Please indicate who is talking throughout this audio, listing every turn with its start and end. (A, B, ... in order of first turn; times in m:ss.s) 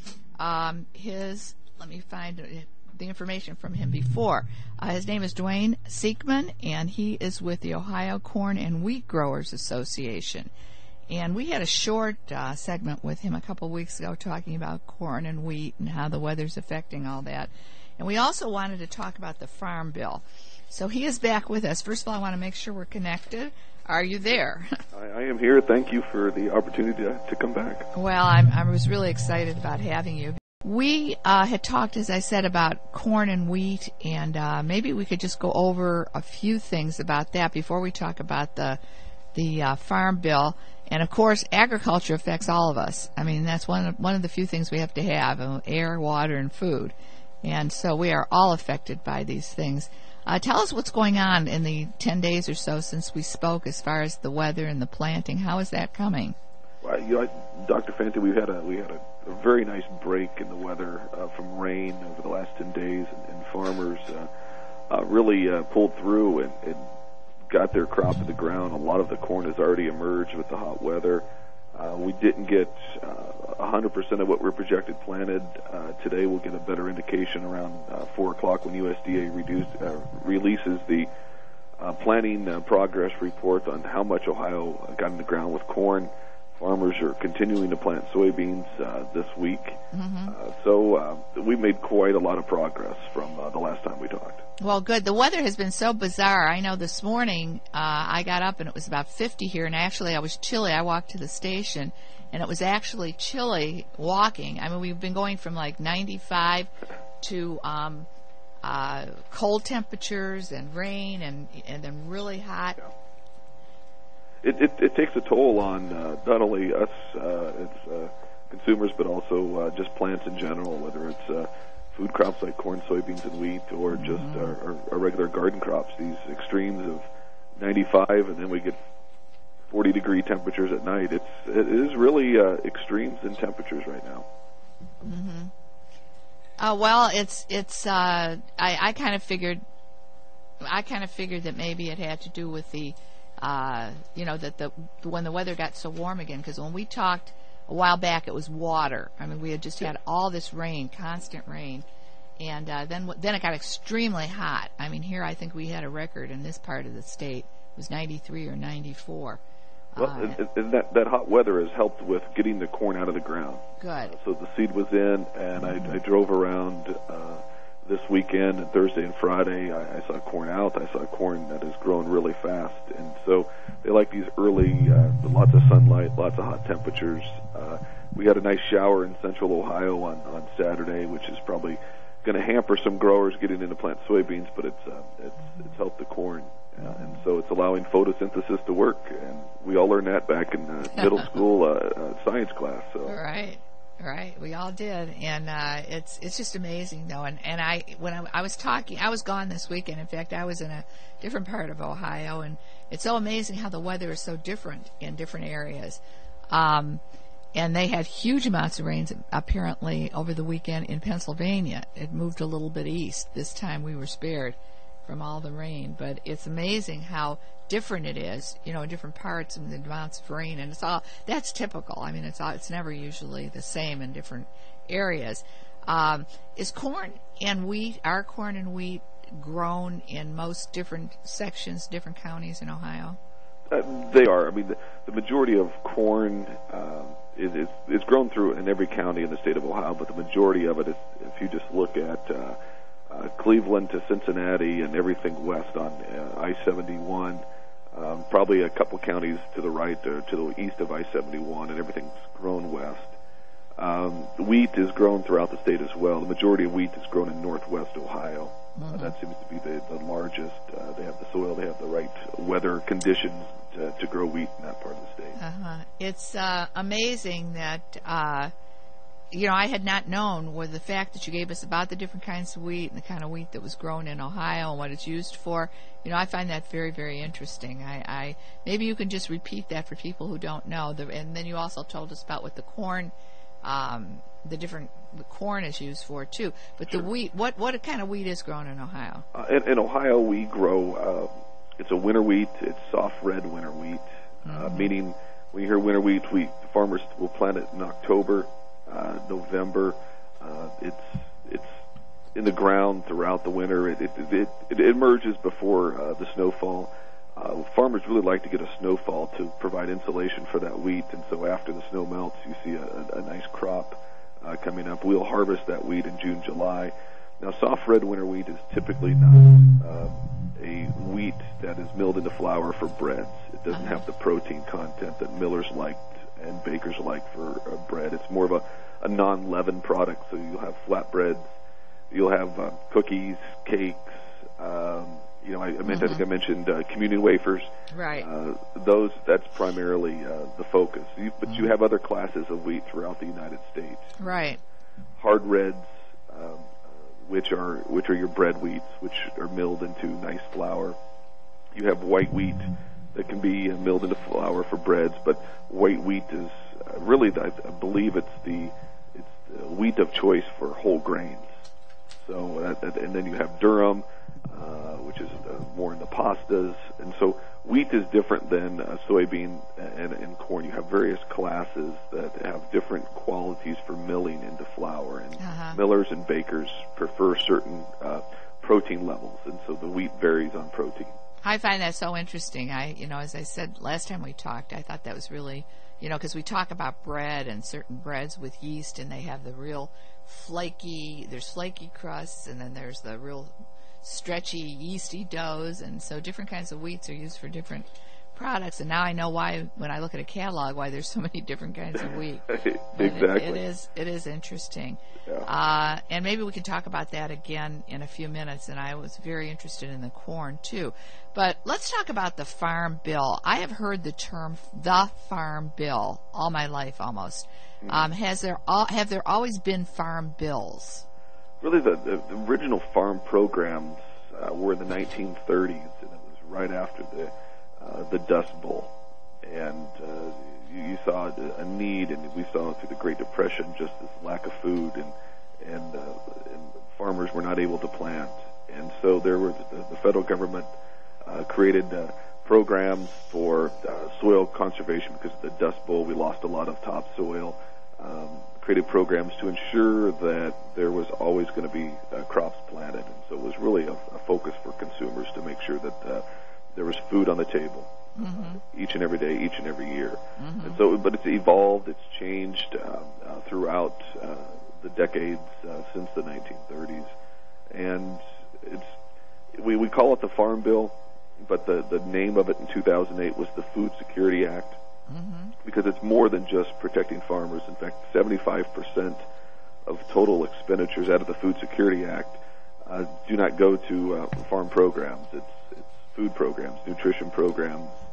0:00.4-0:10.5 A
0:11.1-0:24.8 A
0:24.9-0:27.9 B
0:27.9-0:38.8 A
0:39.3-0:56.4 A
0:56.8-1:04.3 B
1:04.9-1:06.8 B
1:07.5-1:21.1 B
1:21.8-1:34.4 B
1:29.9-1:30.3 A
1:34.6-1:46.7 A
1:47.2-1:48.1 A
1:48.6-1:52.8 A
1:54.4-2:07.0 B
2:03.9-2:04.6 A
2:07.6-2:08.8 B
2:09.7-2:14.2 B
2:15.0-2:15.5 A
2:16.6-2:19.6 A
2:20.6-2:31.8 A
2:32.4-2:39.4 A
2:39.9-2:40.4 A
2:40.0-3:13.2 B
2:43.8-2:44.1 A
2:45.6-2:46.0 A
3:13.0-3:27.0 A
3:27.5-3:53.2 A
3:53.7-4:02.6 B
4:03.1-4:07.4 B
4:07.9-4:13.1 B
4:13.8-4:25.4 B
4:18.8-4:19.2 A
4:25.4-4:28.5 A
4:29.3-4:49.2 A
4:49.3-5:01.7 B
4:54.4-4:54.9 A
5:02.3-5:31.4 B
5:23.7-5:24.0 A
5:32.1-5:44.4 B
5:35.9-5:36.2 A
5:37.9-5:38.3 A
5:44.2-5:44.6 A
5:45.2-5:51.0 B
5:51.7-6:01.5 B
6:02.2-6:21.1 B
6:15.4-6:15.8 A
6:21.4-7:01.0 A
6:42.5-6:43.6 B
6:57.8-6:58.1 B
7:01.6-7:08.9 B
7:09.4-7:20.7 B
7:21.2-7:36.2 B
7:36.7-7:47.1 B
7:38.2-7:38.6 A
7:40.4-7:40.8 A
7:47.7-7:48.9 B
7:49.5-7:50.9 B
7:51.4-7:54.8 B
7:55.1-7:55.5 A
7:55.6-7:59.2 B
7:59.8-8:08.0 B